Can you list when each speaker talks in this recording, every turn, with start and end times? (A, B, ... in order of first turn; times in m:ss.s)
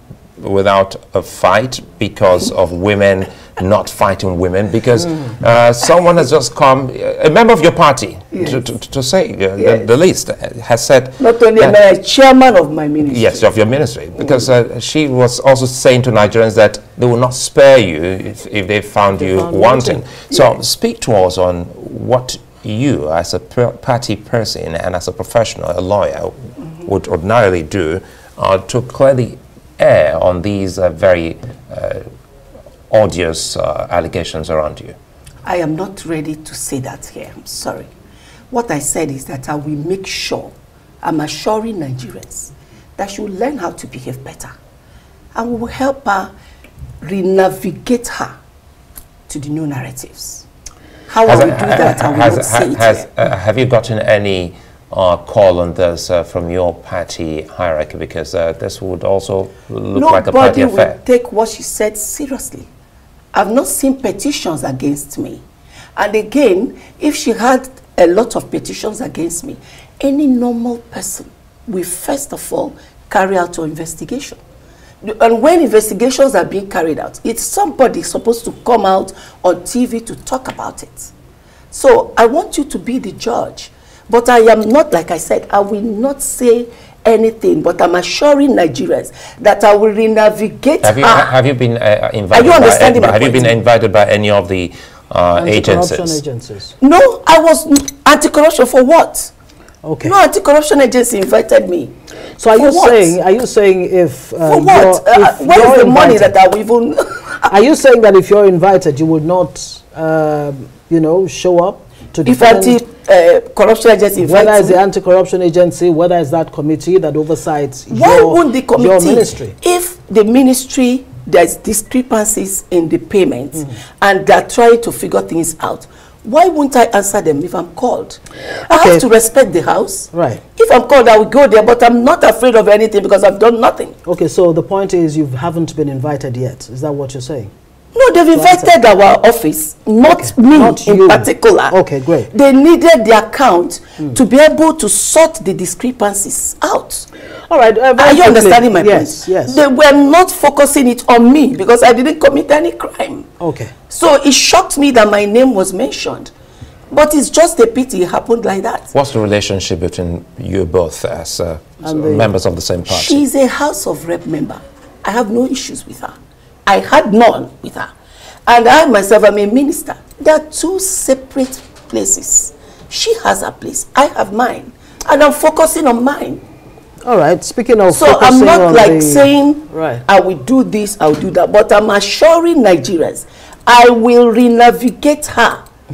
0:00.4-0:11.8 A
0:08.3-0:08.7 B
0:09.6-0:09.9 B
0:11.2-0:13.5 B
0:13.0-0:32.0 A
0:19.1-0:20.0 C
0:20.3-0:20.6 B
0:32.9-0:35.0 A
0:35.4-0:37.9 B
0:38.5-0:44.5 B
0:45.3-0:46.3 B
0:47.0-0:48.3 B
0:49.3-0:50.4 B
0:51.1-0:53.1 B
0:51.2-1:01.0 A
0:59.9-1:02.7 B
1:03.3-1:05.4 B
1:06.0-1:14.4 B
1:15.0-1:21.1 B
1:21.7-1:31.4 B
1:30.8-1:36.2 A
1:32.3-1:33.6 B
1:35.4-1:36.7 C
1:36.8-1:39.3 B
1:39.8-1:40.1 C
1:40.0-1:41.9 B
1:42.4-1:46.3 C
1:42.5-1:43.2 B
1:44.4-1:47.5 B
1:47.5-1:52.8 C
1:52.2-1:54.8 B
1:54.2-1:59.5 C
1:57.9-2:14.0 B
2:08.6-2:09.0 C
2:10.1-2:10.4 C
2:14.0-2:17.5 C
2:17.9-2:27.1 B
2:18.3-2:18.7 C
2:20.0-2:22.3 C
2:27.5-2:29.6 C
2:28.0-2:33.3 B
2:33.4-2:33.7 C
2:33.9-2:36.3 B
2:36.9-2:38.9 B
2:38.9-2:43.2 A
2:41.8-2:42.3 C
2:42.8-2:46.1 B
2:46.6-2:47.9 B
2:48.4-2:56.4 B
2:57.0-3:00.0 C
2:57.9-3:05.6 B